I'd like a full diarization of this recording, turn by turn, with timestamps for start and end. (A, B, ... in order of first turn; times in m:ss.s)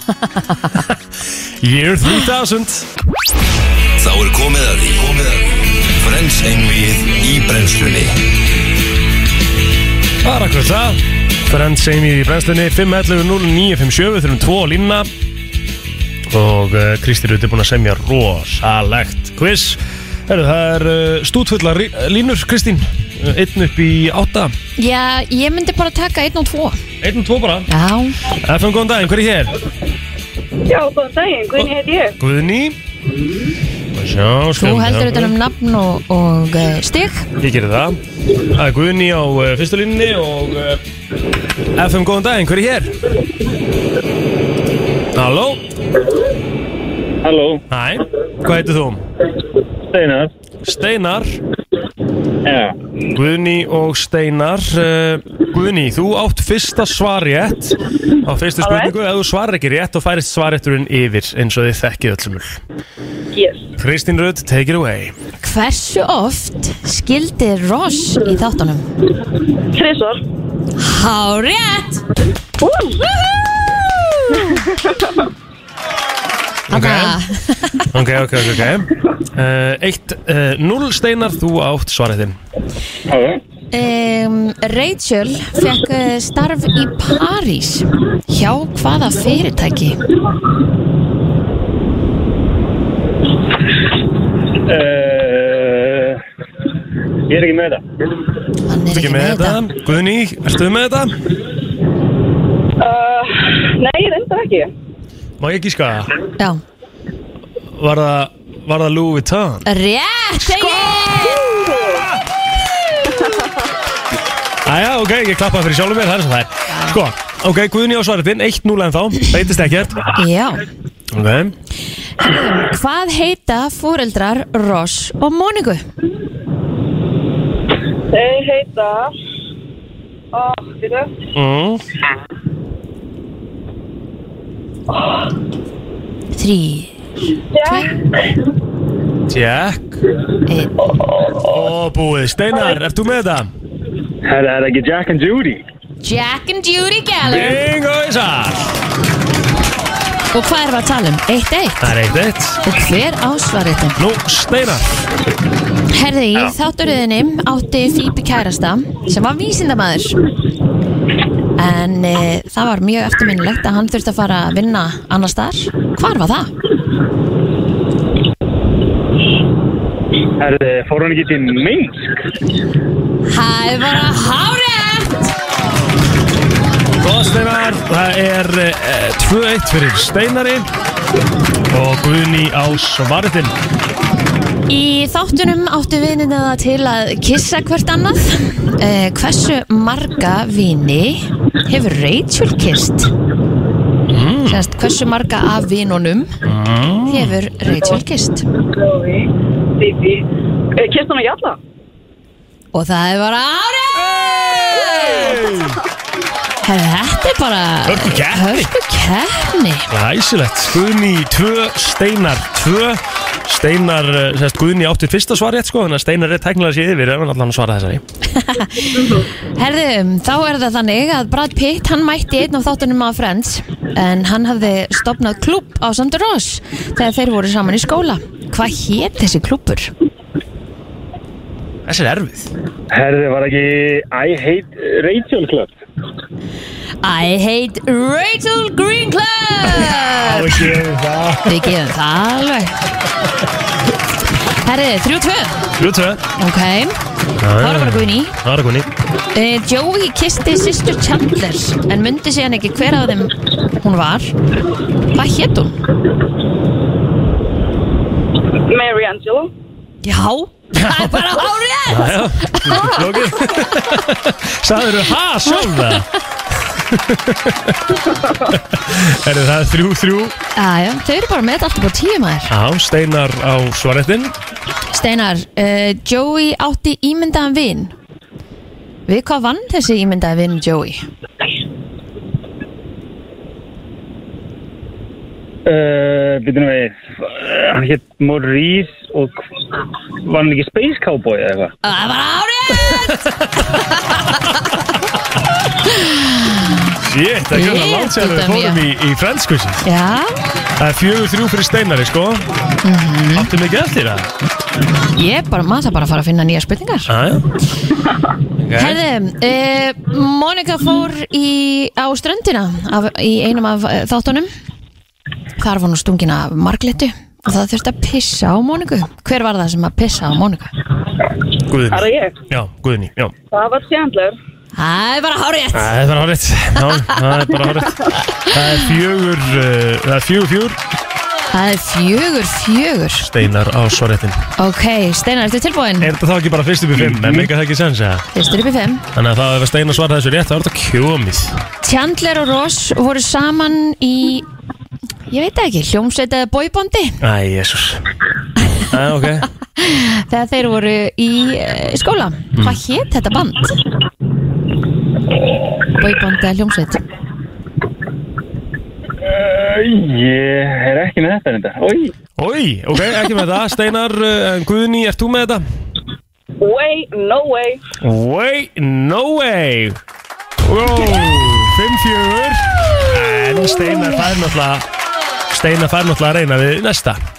0:00.1-0:00.8 A
0:01.6-0:02.9 B
0:04.0-0:08.2 C
0:10.2-0:15.1 B
0:16.3-0:24.5 B
0:24.8-0:26.8 A
0:27.0-0:27.7 B
0:27.7-0:28.2 A
0:28.3-0:29.6 B
0:30.7-0:32.2 D
0:32.2-0:32.8 B
0:33.9-0:35.4 B
0:34.6-0:37.3 A
0:37.4-0:40.8 B
0:41.8-0:43.0 B
0:45.2-0:45.6 B
0:47.2-0:47.6 E
0:47.7-0:49.0 B
0:49.9-0:50.3 E
0:50.6-0:51.4 B
0:52.4-0:52.7 E
0:53.1-1:02.6 B
0:58.6-0:58.9 D
1:03.3-1:03.7 D
1:03.8-1:05.2 B
1:05.4-1:08.8 A
1:09.7-1:10.2 D
1:10.8-1:12.0 A
1:12.6-1:13.3 D
1:14.3-1:14.6 A
1:14.5-1:15.0 D
1:16.7-1:17.2 B
1:16.7-1:17.9 A
1:17.9-1:22.4 B
1:23.1-1:23.4 E
1:23.7-1:30.0 A
1:34.7-1:36.2 E
1:37.3-1:37.8 E
1:38.7-1:39.6 A
1:38.9-1:41.2 B
1:42.8-1:44.7 D
1:45.4-1:46.1 B
1:47.8-1:49.7 B
1:49.7-1:51.4 A
1:51.2-1:52.1 D
1:54.6-2:00.0 B
2:00.2-2:00.7 A
2:01.1-2:01.5 B
2:02.2-2:05.8 A
2:08.1-2:09.1 D
2:10.3-2:11.1 D
2:11.3-2:11.8 B
2:16.3-2:16.9 A
2:17.5-2:17.9 D
2:17.6-2:18.0 A
2:19.3-2:20.0 B
2:20.5-2:20.8 A
2:21.4-2:23.5 B
2:24.2-2:25.6 E
2:26.0-2:27.6 A
2:27.2-2:28.7 B
2:30.3-2:31.9 A
2:31.8-2:32.6 B
2:32.6-2:34.0 A
2:34.0-2:35.0 B
2:35.9-2:40.2 A
2:41.6-2:46.5 A
2:50.4-2:52.2 E
2:53.3-2:55.3 A
2:57.0-3:00.7 B
3:01.7-3:03.6 B
3:04.7-3:13.1 A
3:14.1-3:14.7 B
3:14.5-3:16.4 A
3:16.4-3:17.4 B
3:17.1-3:18.5 A
3:18.8-3:19.3 D
3:19.8-3:20.2 D
3:20.8-3:21.6 D
3:22.7-3:24.2 A
3:24.0-3:25.8 B
3:24.9-3:25.7 D
3:26.6-3:29.9 A
3:27.9-3:28.7 B
3:29.9-3:38.0 B
3:38.3-3:49.9 A
3:51.9-3:52.5 B
3:52.9-3:55.7 E
3:57.0-4:00.7 A
3:59.8-4:01.4 B
4:00.8-4:01.4 E
4:01.5-4:02.7 A
4:04.6-4:05.7 A
4:05.8-4:06.2 B
4:06.4-4:07.0 A
4:07.4-4:08.9 B
4:07.6-4:08.4 A
4:09.3-4:14.3 A
4:15.1-4:15.8 A
4:18.7-4:19.5 D
4:20.0-4:23.0 A
4:20.7-4:21.3 B
4:21.9-4:27.9 B
4:28.5-4:30.4 B
4:30.6-4:32.5 A
4:32.5-4:34.4 B
4:34.9-4:37.9 A
4:39.1-4:41.0 A
4:45.7-4:49.4 E
4:50.2-4:51.7 E
4:51.8-4:53.1 A
4:52.9-4:53.6 B
4:55.8-4:56.8 A
4:57.0-4:59.9 B
4:57.5-4:58.8 A
4:59.8-5:00.3 A
5:00.8-5:02.5 B
5:02.8-5:03.5 A
5:03.3-5:04.3 B
5:05.2-5:07.1 A
5:07.1-5:07.5 B
5:08.6-5:09.0 B
5:08.8-5:14.5 A
5:15.6-5:20.7 A
5:21.7-5:23.3 B
5:21.9-5:22.4 D
5:23.5-5:24.4 D
5:24.8-5:25.9 A
5:25.7-5:30.8 B
5:31.5-5:33.3 A
5:33.2-5:34.4 B
5:34.6-5:36.1 A
5:36.0-5:38.3 B
5:37.1-5:37.4 E
5:38.3-5:39.0 A
5:39.1-5:41.6 B
5:41.8-5:44.4 A
5:45.3-5:47.2 A
5:47.2-5:48.1 B
5:48.9-5:49.5 B
5:49.8-5:53.8 A
5:56.0-5:57.0 A
5:59.2-6:02.1 E
6:02.4-6:05.6 B
6:06.6-6:07.8 D
6:08.0-6:10.0 B
6:10.6-6:14.9 B
6:15.5-6:17.2 B